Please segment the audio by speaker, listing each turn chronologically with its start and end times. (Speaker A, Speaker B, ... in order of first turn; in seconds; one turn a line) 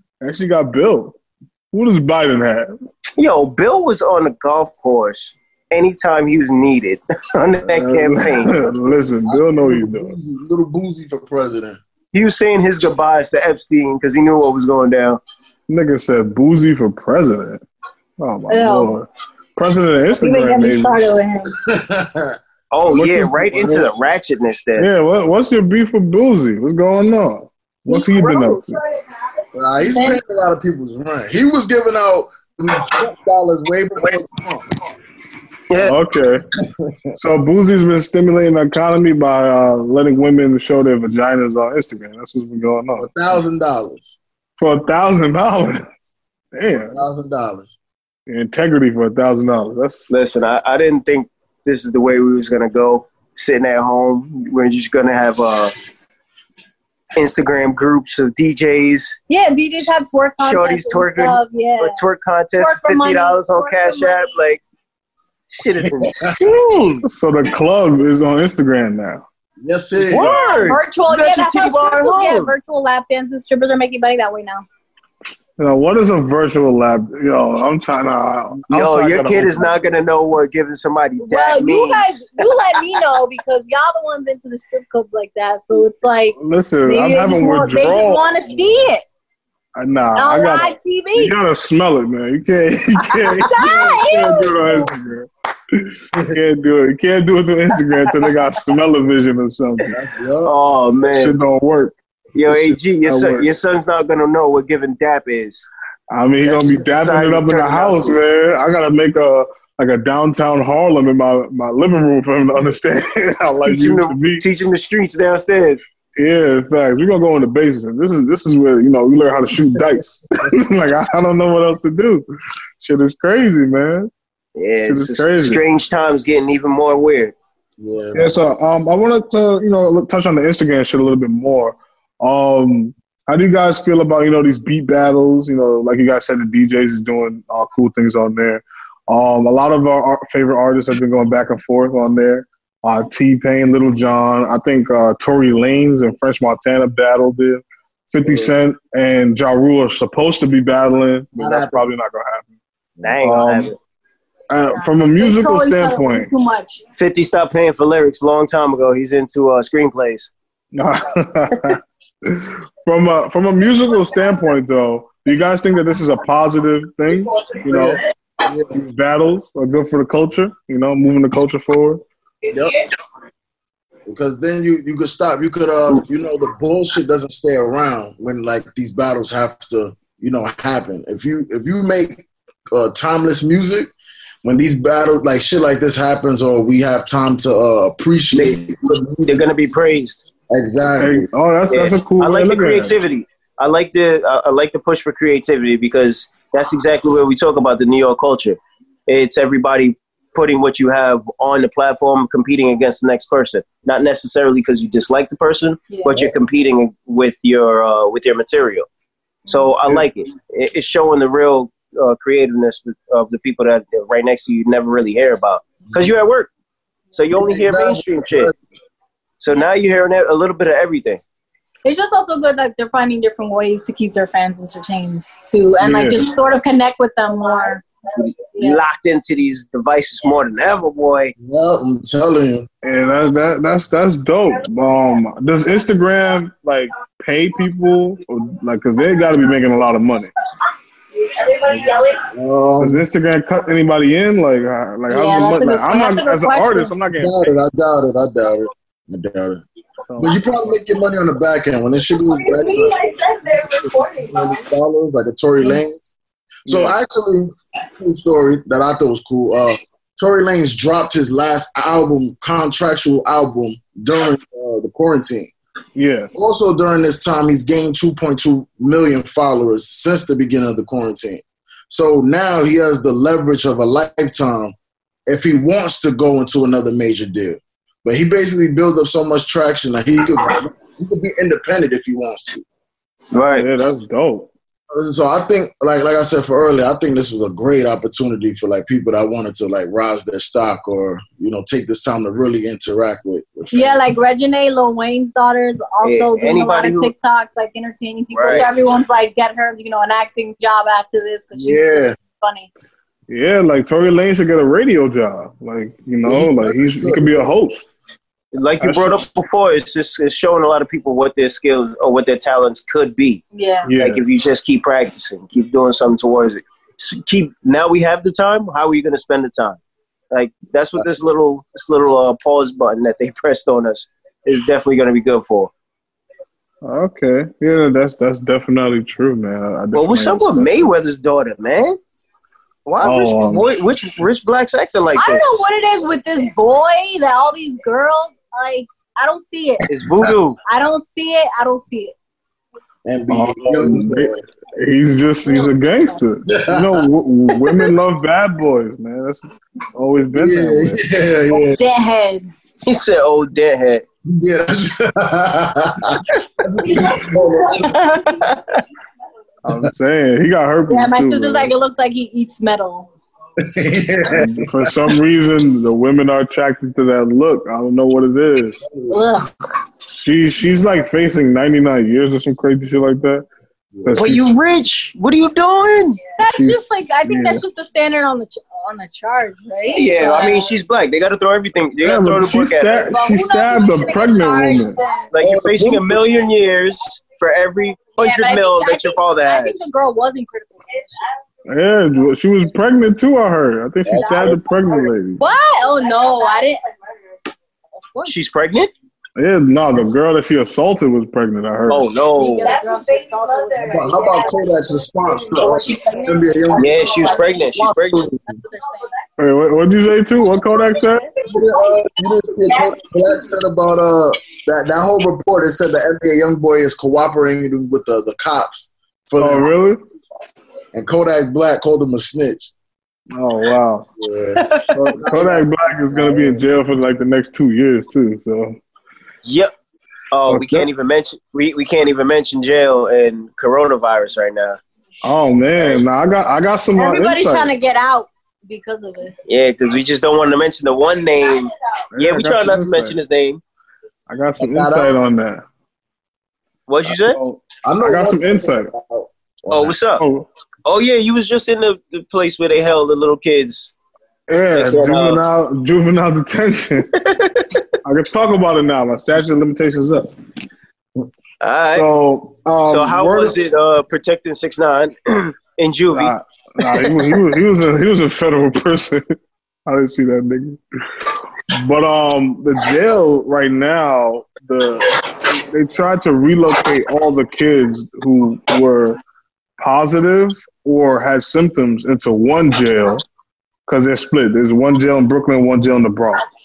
Speaker A: 0.2-1.2
Speaker A: 1.7-2.7
Speaker B: 3.2-8.6
Speaker A: 7.7-10.1
Speaker C: 8.6-11.8
Speaker B: 12.1-15.2
Speaker A: 15.7-17.6
Speaker A: 18.2-21.0
Speaker D: 18.5-19.0
Speaker D: 20.2-21.6
Speaker C: 21.6-22.4
Speaker B: 22.7-24.9
Speaker A: 22.8-23.9
Speaker A: 24.8-28.8
Speaker D: 27.9-28.9
Speaker C: 29.6-34.8
Speaker D: 29.8-30.2
Speaker B: 35.7-36.0
Speaker A: 35.8-36.5
Speaker C: 36.6-37.1
Speaker A: 37.1-43.4
Speaker C: 43.0-44.2
Speaker A: 44.6-46.0
Speaker A: 46.5-47.0
Speaker C: 46.8-47.7
Speaker A: 48.3-50.1
Speaker B: 50.1-55.7
Speaker B: 57.2-59.2
Speaker D: 59.3-62.0
Speaker B: 60.4-64.6
Speaker D: 62.6-64.3
Speaker B: 65.5-67.0
Speaker C: 65.8-66.4
Speaker A: 67.0-69.2
Speaker C: 69.6-70.4
Speaker B: 70.1-72.5
Speaker D: 70.2-74.7
Speaker A: 75.6-79.7
Speaker B: 78.7-82.4
Speaker D: 81.2-89.0
Speaker A: 86.4-88.3
Speaker A: 89.8-99.9
Speaker D: 90.2-91.3
Speaker D: 93.4-94.5
Speaker C: 94.6-95.0
Speaker C: 99.9-100.5
Speaker B: 100.4-101.4
Speaker A: 101.1-102.0
Speaker B: 102.3-105.7
Speaker A: 102.5-103.5
Speaker A: 106.1-114.4
Speaker B: 106.5-108.2
Speaker B: 113.7-115.9
Speaker A: 116.2-122.2
Speaker A: 122.8-124.1
Speaker B: 124.6-127.3
Speaker A: 124.8-125.6
Speaker C: 127.8-128.3
Speaker A: 128.1-152.5
Speaker C: 148.2-148.5
Speaker C: 151.4-151.9
Speaker B: 153.0-153.8
Speaker A: 153.2-153.7
Speaker A: 154.5-156.3
Speaker D: 154.7-156.8
Speaker B: 157.0-160.3
Speaker A: 160.7-168.0
Speaker C: 167.7-168.7
Speaker A: 168.7-172.0
Speaker C: 172.5-172.8
Speaker C: 174.1-183.9
Speaker C: 184.4-189.5
Speaker B: 188.3-188.7
Speaker B: 189.2-190.2
Speaker C: 190.5-191.3
Speaker A: 191.0-192.9
Speaker B: 191.7-208.9
Speaker D: 205.9-206.2
Speaker D: 209.5-209.7
Speaker B: 209.5-216.5
Speaker B: 217.1-218.5
Speaker C: 217.3-218.5
Speaker B: 219.4-221.2
Speaker D: 221.8-228.8
Speaker A: 225.8-226.3
Speaker B: 228.6-231.3
Speaker C: 231.4-232.7
Speaker A: 232.8-240.3
Speaker E: 241.2-242.3
Speaker C: 242.3-243.0
Speaker A: 242.8-247.5
Speaker D: 245.1-246.9
Speaker C: 247.2-249.6
Speaker A: 250.1-250.4
Speaker C: 250.2-253.0
Speaker E: 252.2-254.7
Speaker C: 254.2-256.1
Speaker C: 256.7-265.5
Speaker A: 256.7-257.0
Speaker A: 265.9-266.3
Speaker C: 266.3-274.8
Speaker C: 275.3-282.6
Speaker B: 283.3-283.7
Speaker A: 283.5-284.5
Speaker C: 284.9-294.0
Speaker D: 293.7-302.7
Speaker B: 296.0-297.1
Speaker B: 298.3-298.7
Speaker C: 301.5-302.2
Speaker A: 303.3-307.9
Speaker C: 306.2-307.5
Speaker B: 308.5-313.4
Speaker A: 308.8-309.2
Speaker D: 313.5-313.9
Speaker A: 313.9-314.2
Speaker B: 314.0-319.8
Speaker B: 320.3-325.7
Speaker A: 326.8-330.9
Speaker B: 329.9-332.0
Speaker B: 332.9-335.6
Speaker A: 333.0-334.2
Speaker D: 335.2-339.9
Speaker B: 339.9-340.6
Speaker D: 340.7-342.1
Speaker C: 343.1-344.4
Speaker A: 343.3-351.0
Speaker D: 345.4-346.2
Speaker C: 346.5-347.9
Speaker C: 350.3-351.8
Speaker D: 351.5-352.5
Speaker B: 352.8-354.0
Speaker C: 354.3-358.0
Speaker D: 356.9-358.3
Speaker B: 358.1-358.8
Speaker A: 359.6-361.7
Speaker D: 360.9-363.1
Speaker C: 363.6-365.1
Speaker A: 364.3-368.8
Speaker C: 368.8-369.2
Speaker D: 369.1-369.5
Speaker A: 370.1-373.5
Speaker C: 373.9-374.5
Speaker A: 374.1-374.5
Speaker B: 374.1-376.2
Speaker D: 376.4-380.7
Speaker A: 376.5-377.6
Speaker B: 379.9-383.1
Speaker A: 382.0-385.0
Speaker D: 383.1-385.3
Speaker B: 385.3-389.9
Speaker C: 385.4-386.3
Speaker D: 388.2-390.9
Speaker A: 391.7-395.4
Speaker C: 394.1-394.6
Speaker D: 395.4-396.8
Speaker E: 395.9-396.7
Speaker B: 398.3-398.9
Speaker A: 399.4-402.1
Speaker B: 401.9-402.7
Speaker D: 402.3-404.7
Speaker E: 402.6-407.8
Speaker C: 403.8-408.4
Speaker D: 405.3-406.7
Speaker B: 406.8-408.3
Speaker D: 407.8-409.1
Speaker A: 409.4-411.3
Speaker C: 411.4-419.7
Speaker E: 411.6-411.9
Speaker E: 412.6-413.2
Speaker A: 419.4-420.0
Speaker C: 420.9-422.7
Speaker A: 423.3-424.1
Speaker C: 424.2-424.6
Speaker A: 424.9-428.8
Speaker C: 425.2-426.6
Speaker B: 429.4-429.7
Speaker B: 430.3-434.8
Speaker A: 430.5-430.9
Speaker A: 435.2-437.7
Speaker D: 436.9-439.3
Speaker B: 439.5-443.6
Speaker E: 441.3-441.7
Speaker A: 442.1-443.2
Speaker A: 444.3-445.6
Speaker C: 444.6-445.2
Speaker B: 446.9-447.4
Speaker A: 447.1-448.9
Speaker C: 447.8-450.0
Speaker B: 449.7-450.2
Speaker A: 450.2-450.5
Speaker B: 450.9-453.9
Speaker A: 454.5-457.1
Speaker B: 454.7-455.4
Speaker B: 457.2-457.9
Speaker A: 458.0-460.3
Speaker B: 461.6-462.1
Speaker A: 461.9-463.6
Speaker B: 462.9-467.4
Speaker A: 466.1-469.4
Speaker A: 469.9-470.8
Speaker A: 471.7-479.2
Speaker A: 479.8-483.2
Speaker A: 483.9-486.4